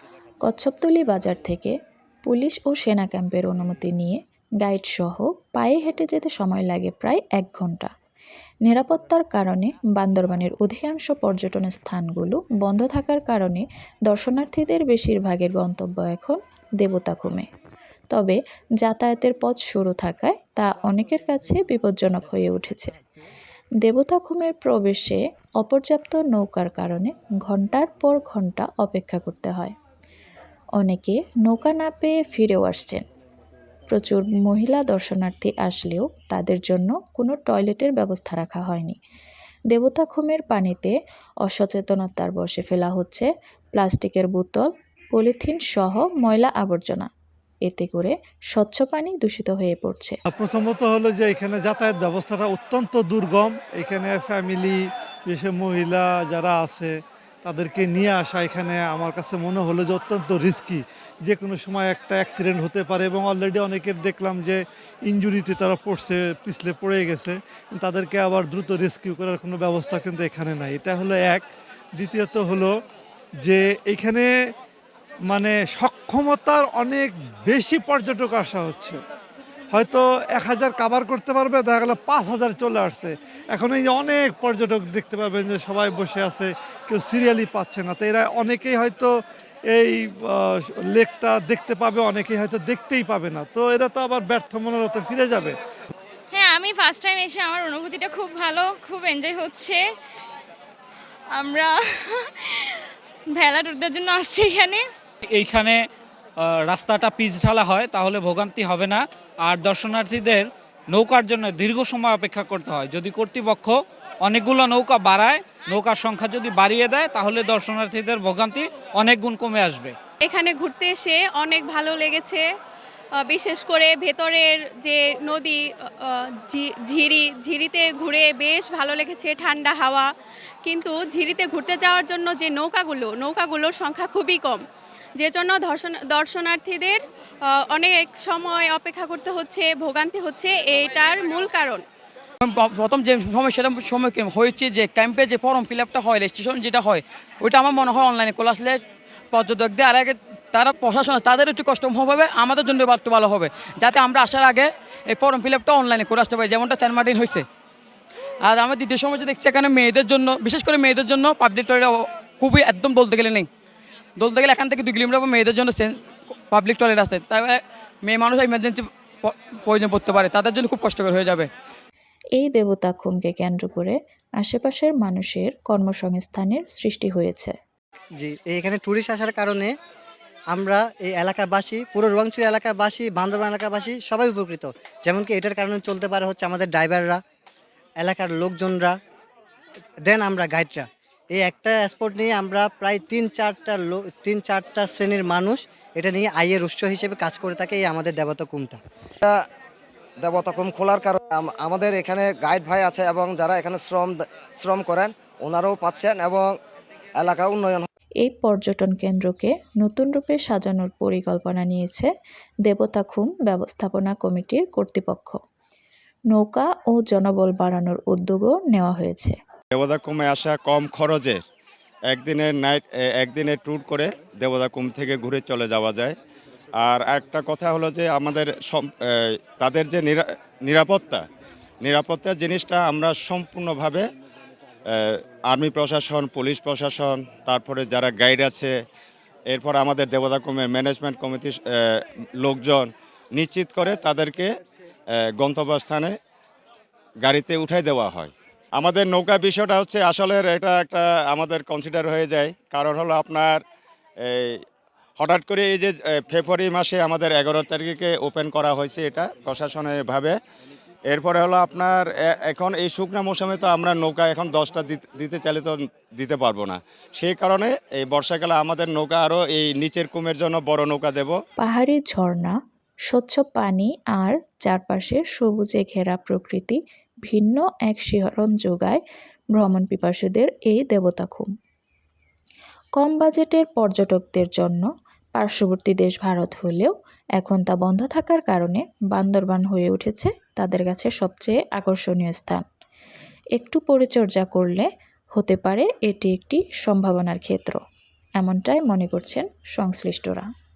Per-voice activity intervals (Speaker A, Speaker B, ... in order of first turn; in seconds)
Speaker A: 0.4-1.7, 2.3-7.9, 8.7-17.5, 18.1-22.9, 23.8-29.7, 30.8-33.0, 33.9-39.0, 39.7-47.1, 47.6-50.2, 172.4-177.6, 208.2-212.1, 212.7-215.4, 216.3-219.4, 271.6-272.6, 273.1-279.0, 279.5-281.5, 283.0-292.6, 293.6-297.8, 298.4-300.5
Speaker B: 50.3-71.5, 72.0-72.7, 73.4-74.3, 75.3-79.0, 79.7-89.1, 89.7-95.6
Speaker C: 96.3-99.8, 101.3-101.8, 103.3-104.8
Speaker D: 105.2-105.8, 106.4-120.0
Speaker E: 120.2-122.4, 123.2-130.1, 130.6-134.6, 135.2-141.8
Speaker F: 142.4-148.8, 149.3-157.4, 158.4-163.5, 164.2-166.0, 166.5-171.5
Speaker G: 178.3-179.7, 180.6-187.2, 188.1-188.9, 190.1-190.8, 191.4-193.7, 194.3-198.8
Speaker H: 200.2-206.5, 207.2-207.9
Speaker I: 219.7-221.4, 222.1-226.2, 226.8-231.2, 231.8-234.1, 234.9-238.7, 239.5-244.5, 245.4-246.1, 247.2-253.6, 254.2-254.6, 255.2-260.4, 261.1-271.4